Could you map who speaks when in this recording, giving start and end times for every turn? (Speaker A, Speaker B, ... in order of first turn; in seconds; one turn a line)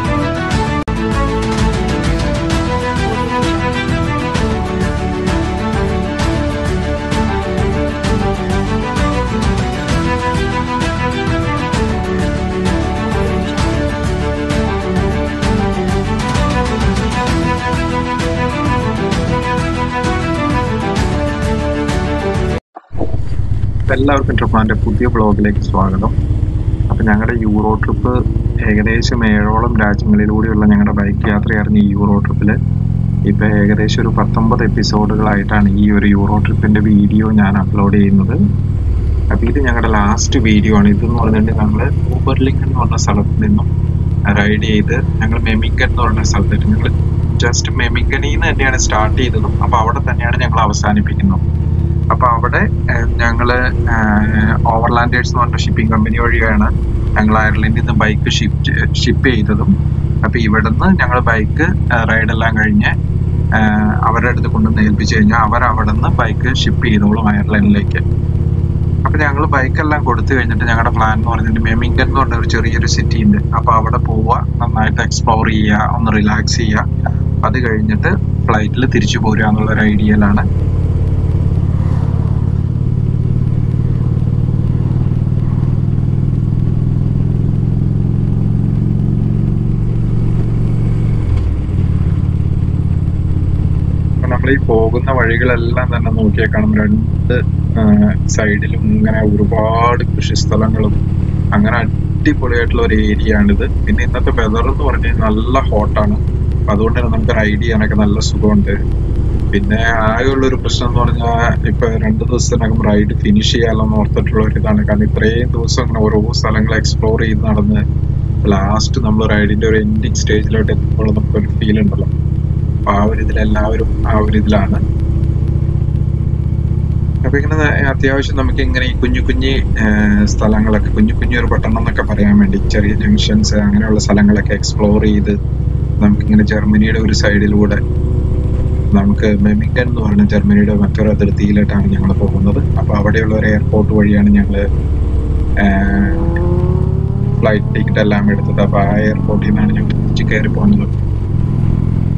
Speaker A: 23.9-26.1
Speaker A: 26.9-32.6
Speaker A: 33.3-38.4
Speaker A: 39.3-43.7
Speaker A: 44.3-51.4
Speaker A: 52.1-62.9
Speaker A: 63.6-68.0
Speaker A: 69.0-76.8
Speaker A: 77.4-80.5
Speaker A: 94.2-101.0
Speaker A: 101.5-108.8
Speaker A: 109.5-117.8
Speaker A: 118.4-122.1
Speaker A: 122.9-124.8
Speaker A: 127.2-135.4
Speaker A: 136.0-137.8
Speaker A: 138.9-144.6
Speaker A: 145.6-146.3
Speaker A: 147.4-150.9